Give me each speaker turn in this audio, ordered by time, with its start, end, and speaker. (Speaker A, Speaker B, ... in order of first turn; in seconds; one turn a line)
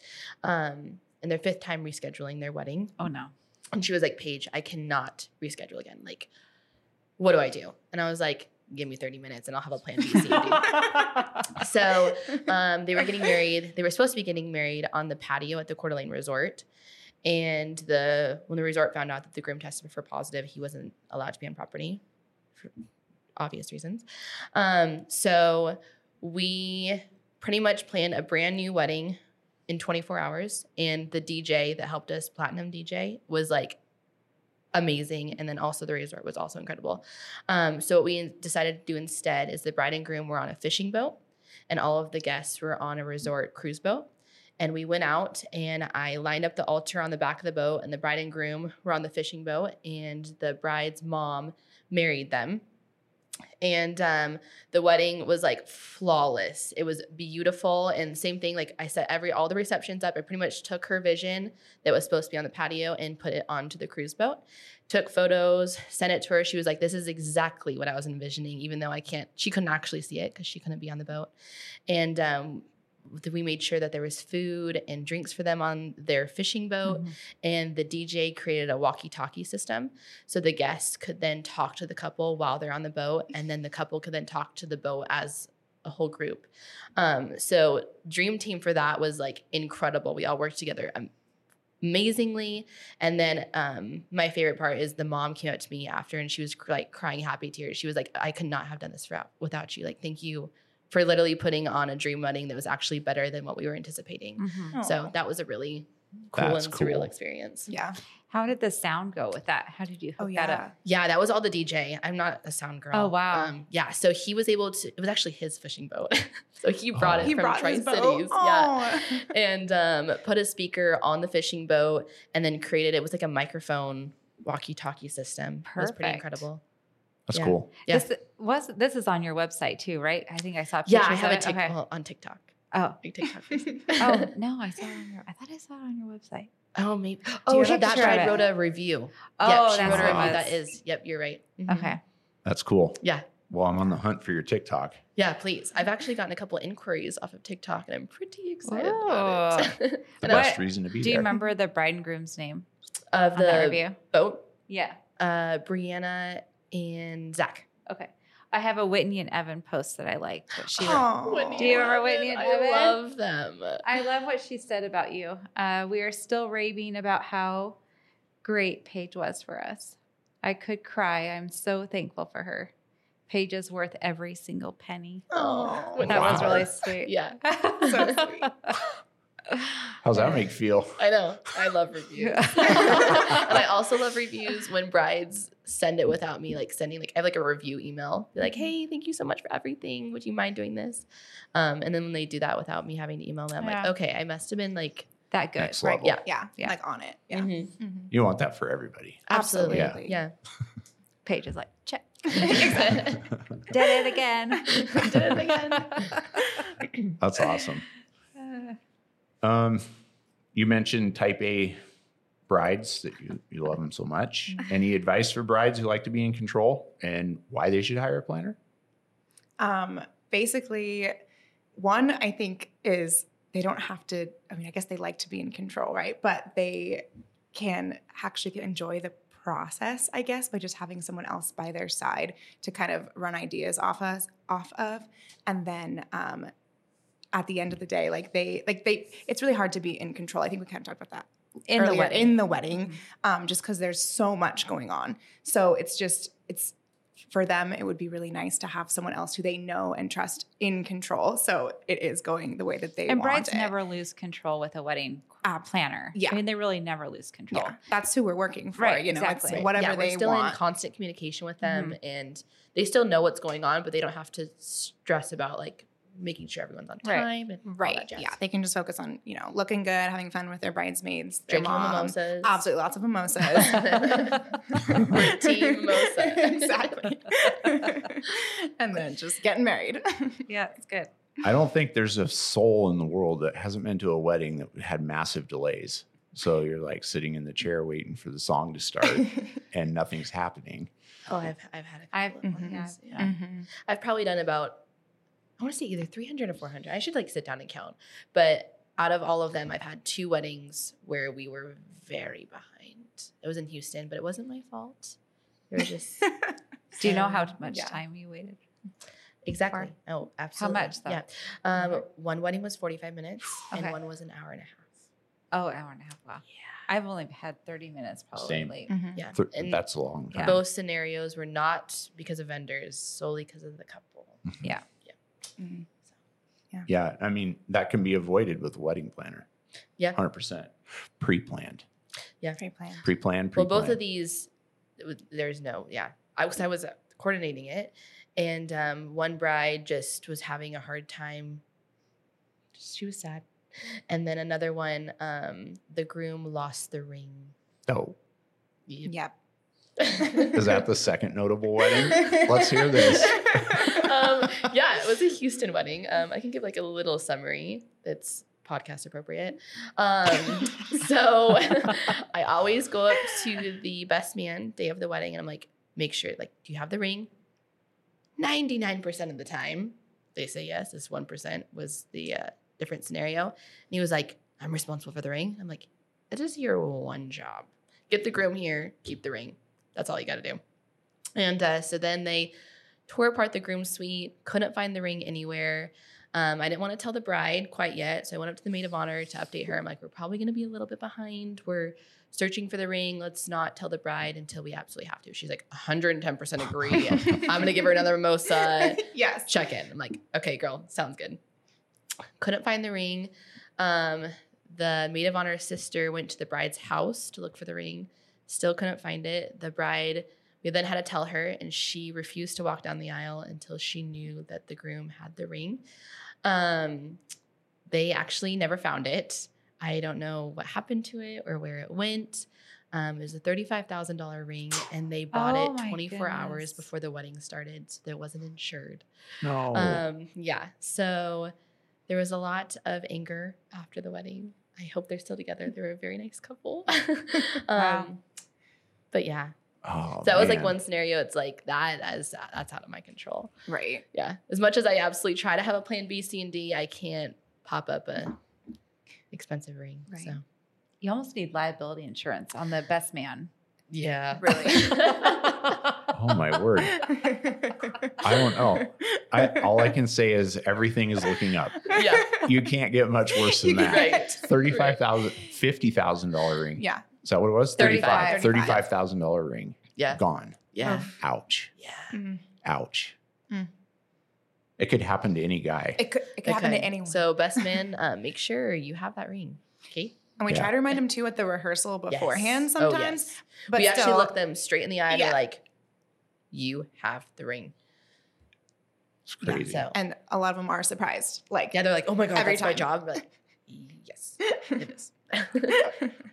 Speaker A: 0.4-3.0
Speaker B: 3.0-3.3
Speaker A: 3.7-6.3
Speaker A: 7.2-16.6
Speaker A: 17.2-22.0
Speaker A: 23.4-33.8
Speaker A: 34.7-52.6
Speaker A: 53.6-71.3
Speaker A: 71.9-91.1
Speaker B: 76.8-77.1
Speaker A: 91.8-107.7
Speaker B: 104.4-104.8
Speaker C: 104.7-105.1
Speaker D: 106.4-107.1
Speaker C: 107.7-108.0
Speaker B: 108.3-110.7
Speaker C: 110.2-110.7
Speaker A: 110.8-126.6
Speaker B: 112.9-113.5
Speaker D: 117.0-117.3
Speaker C: 117.2-119.3
Speaker B: 125.7-126.4
Speaker D: 127.3-127.7
Speaker A: 127.3-128.1
Speaker B: 127.9-131.8
Speaker A: 130.9-134.3
Speaker B: 132.7-133.0
Speaker B: 134.0-136.5
Speaker A: 136.8-142.0
Speaker B: 137.5-138.5
Speaker C: 137.5-138.4
Speaker B: 139.4-140.6
Speaker D: 139.8-140.4
Speaker B: 141.7-142.0
Speaker D: 142.4-145.0
Speaker A: 143.0-143.3
Speaker A: 145.2-150.5
Speaker B: 148.7-152.7
Speaker D: 150.2-151.3
Speaker A: 153.1-154.5
Speaker B: 153.3-154.0
Speaker B: 154.7-155.0
Speaker A: 155.2-157.7
Speaker B: 157.9-163.0
Speaker C: 160.8-161.8
Speaker A: 160.8-163.8
Speaker B: 163.8-167.8
Speaker B: 168.4-172.7
Speaker B: 173.3-178.9
Speaker C: 175.3-176.0
Speaker A: 175.3-178.2
Speaker D: 176.0-176.7
Speaker C: 177.9-178.5
Speaker B: 179.5-180.0
Speaker D: 180.0-181.0
Speaker A: 181.0-195.1
Speaker B: 182.2-183.4
Speaker B: 193.6-193.9
Speaker B: 195.3-196.0
Speaker D: 195.6-196.2
Speaker A: 195.8-196.2
Speaker C: 196.2-198.1
Speaker A: 197.3-197.7
Speaker D: 198.1-200.0
Speaker A: 199.3-200.3
Speaker C: 199.3-200.2
Speaker B: 201.2-203.0
Speaker C: 202.4-203.2
Speaker A: 202.4-203.2
Speaker B: 203.7-206.6
Speaker C: 204.7-205.8
Speaker A: 204.8-205.9
Speaker D: 207.2-207.9
Speaker B: 208.4-208.8
Speaker D: 209.4-210.0
Speaker D: 210.5-211.8
Speaker D: 212.5-218.6
Speaker C: 219.6-221.2
Speaker C: 221.8-236.5
Speaker C: 237.3-253.7
Speaker B: 241.8-243.0
Speaker B: 253.1-257.8
Speaker C: 255.4-256.4
Speaker C: 257.5-260.6
Speaker B: 258.8-259.7
Speaker A: 259.5-268.3
Speaker C: 267.7-280.4
Speaker A: 271.5-272.7
Speaker A: 273.6-277.2
Speaker B: 280.5-281.1
Speaker D: 281.4-290.9
Speaker A: 291.3-294.8
Speaker B: 292.1-293.3
Speaker C: 292.4-293.7
Speaker A: 295.6-305.2
Speaker A: 305.7-306.3
Speaker B: 307.0-308.6
Speaker C: 307.0-308.0
Speaker A: 307.0-307.4
Speaker A: 309.4-314.9
Speaker B: 310.6-311.2
Speaker B: 315.5-318.9
Speaker D: 318.4-318.8
Speaker C: 318.9-319.2
Speaker A: 319.1-319.8
Speaker D: 319.3-320.6
Speaker B: 320.3-320.6
Speaker A: 320.4-324.4
Speaker C: 325.6-325.9
Speaker D: 326.9-329.5
Speaker D: 330.1-331.9
Speaker C: 332.6-333.0
Speaker D: 333.0-334.0
Speaker A: 333.6-341.6
Speaker A: 342.8-347.6
Speaker D: 347.9-348.2
Speaker A: 348.9-349.2
Speaker C: 349.1-349.3
Speaker A: 350.0-350.6
Speaker D: 350.5-354.1
Speaker A: 352.2-367.3
Speaker C: 353.1-353.8
Speaker A: 368.4-380.6
Speaker A: 381.4-382.5
Speaker A: 383.1-401.4
Speaker C: 397.3-397.7
Speaker C: 398.6-399.5
Speaker A: 402.4-415.8
Speaker A: 416.4-417.2
Speaker A: 417.9-429.1
Speaker B: 425.3-426.9
Speaker D: 429.4-430.1
Speaker A: 429.6-431.5
Speaker A: 432.1-438.2
Speaker A: 439.1-439.5
Speaker D: 439.8-440.8
Speaker A: 440.2-443.5
Speaker C: 443.7-444.1
Speaker A: 444.1-448.4
Speaker A: 449.3-450.4
Speaker C: 450.1-450.4
Speaker B: 451.0-453.5
Speaker A: 453.9-455.6
Speaker C: 454.4-454.9
Speaker D: 456.1-457.1
Speaker C: 456.9-459.8
Speaker D: 458.2-471.7
Speaker A: 461.9-462.5
Speaker C: 461.9-462.5
Speaker C: 463.4-464.4
Speaker A: 463.9-465.0
Speaker C: 466.8-467.0
Speaker B: 467.8-468.7
Speaker A: 467.8-468.9
Speaker A: 470.0-471.1
Speaker A: 471.8-472.2
Speaker C: 472.1-472.4
Speaker D: 472.6-473.2
Speaker D: 474.8-476.1
Speaker C: 476.0-477.6
Speaker A: 476.4-480.2
Speaker C: 480.4-484.3
Speaker A: 482.1-485.6
Speaker C: 485.1-485.4
Speaker A: 486.5-487.7
Speaker D: 489.3-489.9
Speaker A: 489.4-489.9
Speaker C: 489.9-491.8
Speaker A: 491.7-495.9
Speaker C: 492.3-493.1